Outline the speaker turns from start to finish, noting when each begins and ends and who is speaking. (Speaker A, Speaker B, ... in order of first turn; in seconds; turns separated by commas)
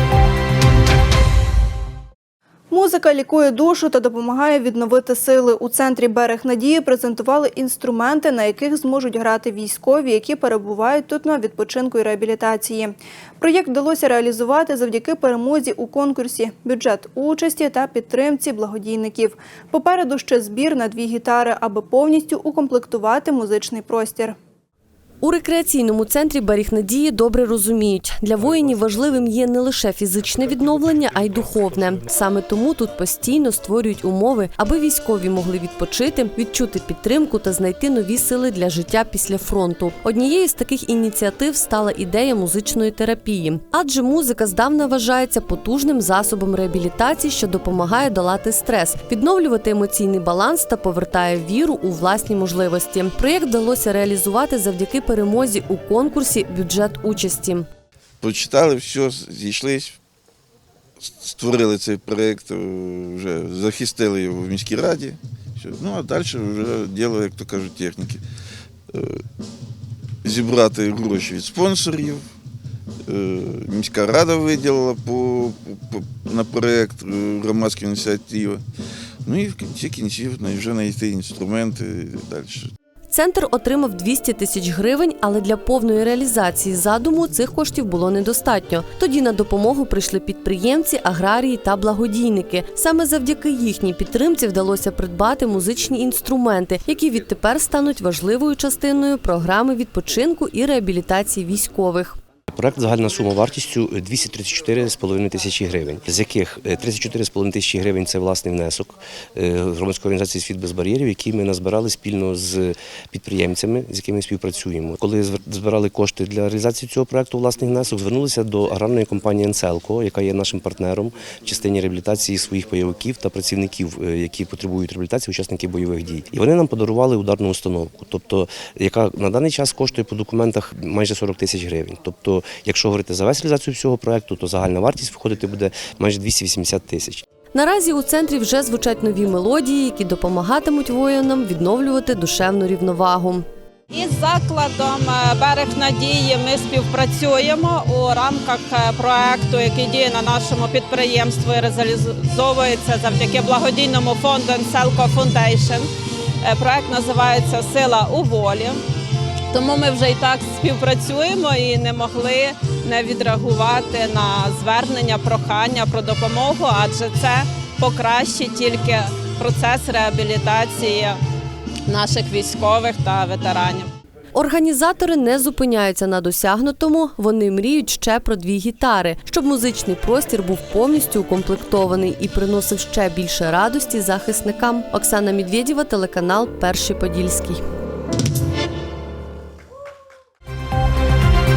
Speaker A: 2.7-24.4, Speaker B: 25.2-57.7, Speaker C: 58.2-60.0, Speaker C: 61.0-68.2, Speaker C: 68.9-69.2, Speaker C: 70.2-72.2, Speaker C: 73.1-78.6, Speaker C: 79.2-82.7, Speaker B: 83.1-102.2, Speaker D: 102.5-137.2, Speaker B: 137.5-143.4, Speaker E: 143.9-155.9, Speaker E: 156.4-158.8, Speaker E: 159.5-171.2, Speaker E: 171.9-173.9, Speaker B: 174.3-187.6